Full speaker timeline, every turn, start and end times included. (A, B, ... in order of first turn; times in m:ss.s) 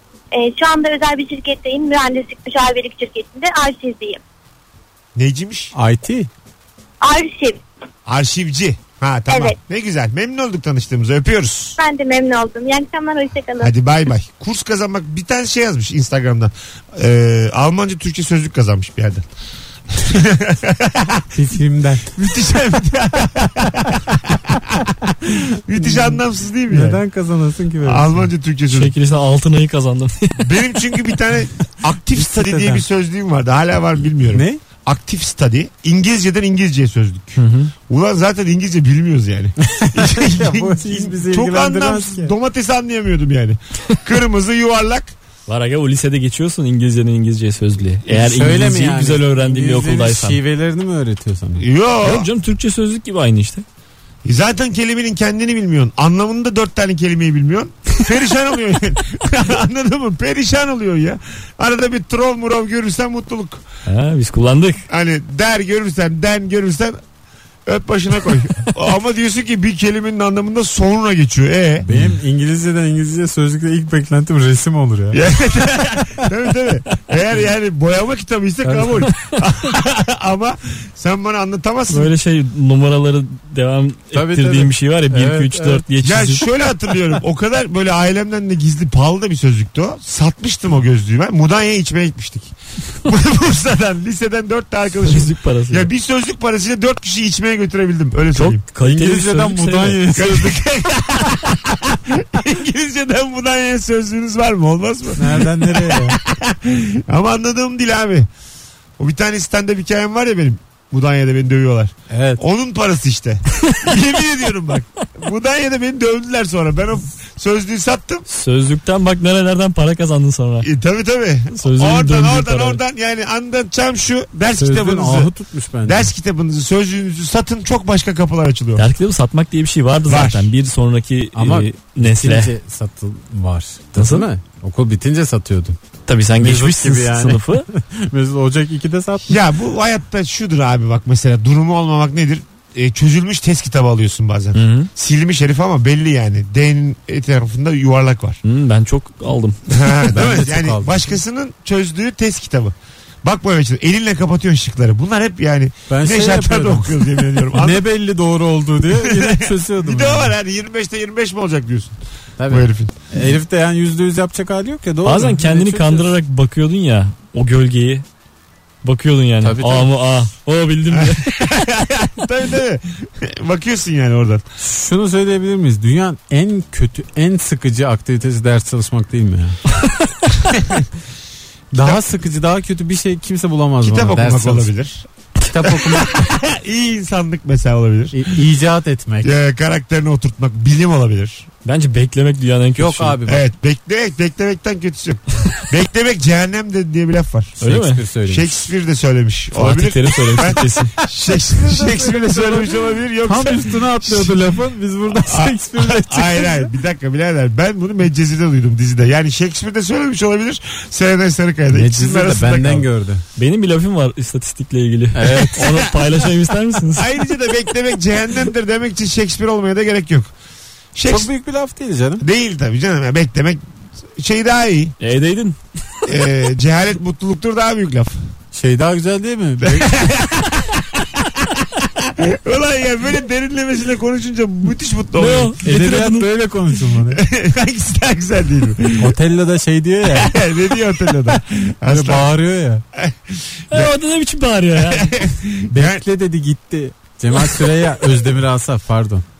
0:00.3-0:04.2 A
0:05.2-0:05.7 B
0:05.8-0:06.3 C
0:07.0-0:07.6 A
0:08.1-0:11.8 B
0:09.3-0:09.6 A
0:11.8-0:13.7 A
0:13.6-0:19.3 B
0:19.9-0:21.2 B
0:21.3-0:22.1 C
0:22.1-0:24.9 B
0:25.3-0:28.3 C
0:25.7-0:27.0 B
0:27.8-0:29.0 B
0:28.7-0:30.6 D
0:30.4-0:45.2 B
0:32.1-0:32.8 C
0:34.3-0:34.6 C
0:37.4-0:37.7 D
0:39.6-0:42.3 C
0:45.5-0:50.4 D
0:48.1-0:51.6 C
0:51.6-0:52.3 B
0:52.0-0:53.6 D
0:54.2-1:03.6 B
1:03.9-1:04.8 D
1:04.9-1:07.0 B
1:07.7-1:11.9 B
1:11.9-1:15.2 C
1:15.1-1:22.1 B
1:18.6-1:19.1 C
1:21.9-1:26.4 D
1:24.1-1:25.9 C
1:26.0-1:38.6 B
1:35.0-1:35.9 D
1:38.3-1:40.1 D
1:38.8-1:40.6 C
1:40.2-1:48.3 B
1:45.2-1:46.2 C
1:49.0-1:58.2 B
1:52.1-1:52.4 C
1:58.3-2:00.7 D
2:00.6-2:05.3 B
2:01.6-2:02.8 D
2:04.6-2:06.1 C
2:05.8-2:08.9 B
2:08.8-2:12.5 D
2:10.1-2:10.5 B
2:11.4-2:15.8 C
2:14.0-2:14.3 D
2:16.1-2:17.7 D
2:16.4-2:19.4 C
2:19.3-2:28.4 B
2:24.6-2:24.9 D
2:28.4-2:30.1 D
2:29.7-2:37.9 B
2:30.1-2:31.2 C
2:35.9-2:40.4 C
2:38.9-2:42.0 B
2:42.4-2:46.1 C
2:42.5-2:42.9 B
2:45.0-2:48.0 D
2:48.8-2:51.4 D
2:49.4-2:49.9 C
2:50.9-2:54.4 B
2:54.6-2:59.6 C
3:00.6-3:00.8 B
3:01.7-3:04.7 C
3:03.8-3:05.1 B
3:05.5-3:06.1 C
3:05.6-3:08.2 B
3:08.1-3:09.3 C
3:09.2-3:11.5 B
3:11.6-3:13.2 D
3:12.8-3:13.5 C
3:13.3-3:17.6 B
3:17.6-3:18.0 D
3:17.6-3:18.6 C
3:18.3-3:24.4 B
3:19.6-3:20.9 D
3:21.5-3:26.7 C
3:25.1-3:32.9 B
3:31.7-3:33.2 C
3:33.4-3:37.1 D
3:35.2-3:35.7 C
3:37.0-3:40.3 B
3:40.9-3:41.3 B
3:41.1-3:42.2 C
3:42.2-3:43.6 B
3:44.2-3:45.0 B
3:45.0-3:45.6 D
3:46.1-3:48.2 B
3:48.5-3:49.9 C
3:49.6-3:55.6 B
3:55.2-3:56.3 D
3:55.6-3:57.2 C
3:57.1-3:59.2 B
3:59.0-4:00.4 C
4:00.1-4:02.3 B
4:01.8-4:02.8 C
4:03.0-4:03.9 B
4:03.7-4:05.4 D
4:04.8-4:06.0 B
4:05.7-4:09.2 C